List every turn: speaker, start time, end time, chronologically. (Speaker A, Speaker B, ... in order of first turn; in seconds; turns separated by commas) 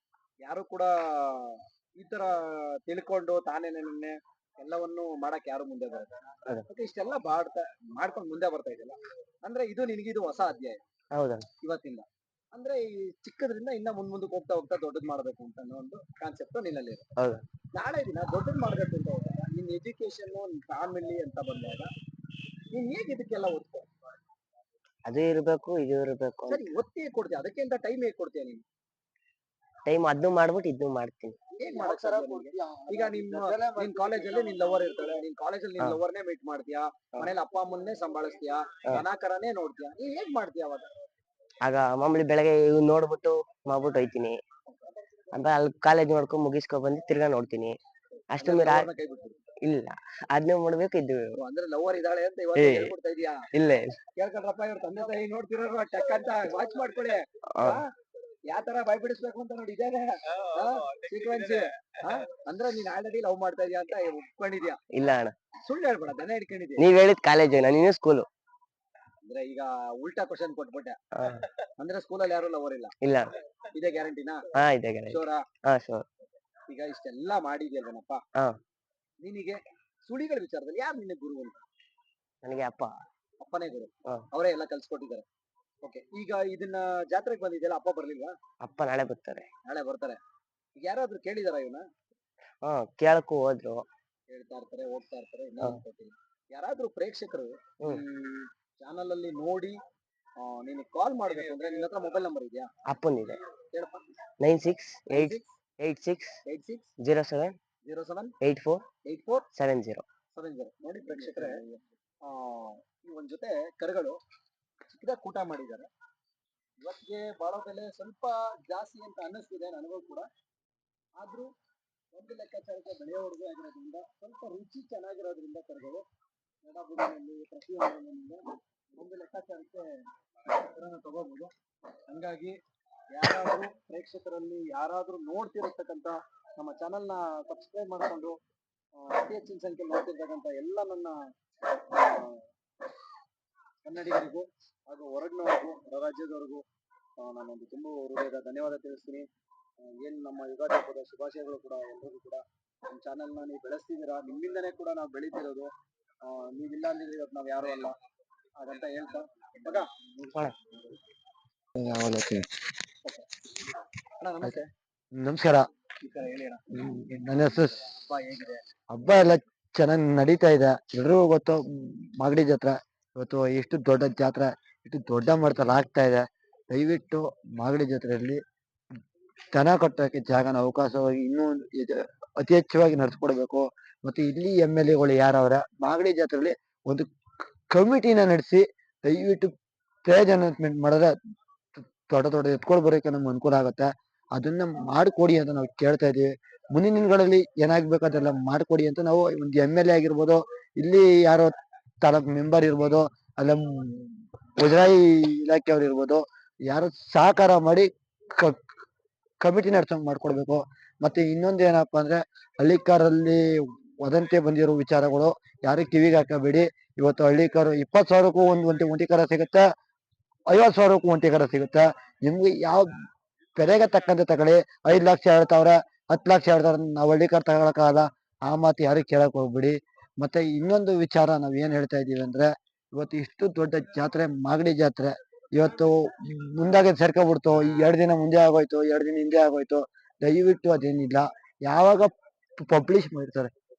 Speaker A: 0.4-6.1, Speaker A: 6.7-10.8, Speaker B: 11.1-11.5, Speaker A: 11.6-17.0, Speaker A: 17.7-21.9, Speaker A: 22.7-23.9, Speaker B: 25.1-26.7, Speaker A: 26.5-28.6, Speaker B: 29.9-31.4, Speaker A: 31.6-40.9, Speaker C: 31.6-34.6, Speaker B: 41.6-44.4, Speaker B: 45.3-47.8, Speaker B: 48.3-48.9, Speaker A: 48.4-49.4, Speaker B: 49.6-51.3, Speaker A: 51.4-53.5, Speaker B: 52.5-52.9, Speaker B: 53.5-54.0, Speaker A: 54.1-57.9, Speaker A: 58.5-64.8, Speaker B: 64.9-65.3, Speaker A: 65.6-66.8, Speaker B: 66.8-68.3, Speaker A: 69.2-71.0, Speaker B: 71.2-71.5, Speaker A: 71.8-72.9, Speaker B: 73.0-73.3, Speaker A: 73.7-74.4, Speaker B: 74.5-76.0, Speaker A: 75.1-75.4, Speaker A: 76.7-78.2, Speaker A: 79.2-81.6, Speaker B: 82.4-82.9, Speaker A: 83.4-85.2, Speaker A: 85.8-88.3, Speaker B: 88.6-89.5, Speaker A: 89.6-90.2, Speaker A: 90.8-91.8, Speaker B: 92.6-93.8, Speaker A: 94.3-99.8, Speaker A: 100.4-102.7, Speaker B: 102.9-103.4, Speaker A: 103.7-104.1, Speaker B: 104.4-106.4, Speaker A: 105.1-105.5, Speaker A: 106.5-106.9, Speaker B: 107.0-107.6, Speaker A: 107.8-108.3, Speaker B: 108.4-108.8, Speaker A: 109.0-109.5, Speaker B: 109.5-110.0, Speaker A: 110.3-111.6, Speaker A: 112.2-114.2, Speaker A: 114.9-115.9, Speaker A: 116.8-120.3, Speaker A: 121.2-121.5, Speaker A: 122.1-126.0, Speaker A: 126.6-128.4, Speaker A: 128.9-131.5, Speaker A: 132.1-132.6, Speaker A: 133.1-138.4, Speaker A: 139.0-141.2, Speaker A: 141.9-142.4, Speaker A: 143.8-146.6, Speaker A: 147.2-149.3, Speaker A: 149.8-155.7, Speaker A: 156.2-157.9, Speaker A: 158.6-159.9, Speaker B: 160.3-160.5, Speaker C: 161.8-162.5, Speaker A: 163.0-163.3, Speaker A: 164.2-164.7, Speaker C: 165.1-165.7, Speaker A: 166.0-166.6, Speaker C: 166.7-167.9, Speaker A: 167.9-168.7, Speaker C: 168.9-178.4, Speaker C: 179.5-187.1, Speaker C: 187.7-189.5, Speaker C: 190.0-191.1, Speaker C: 191.8-208.7, Speaker C: 209.4-219.7, Speaker C: 220.5-243.5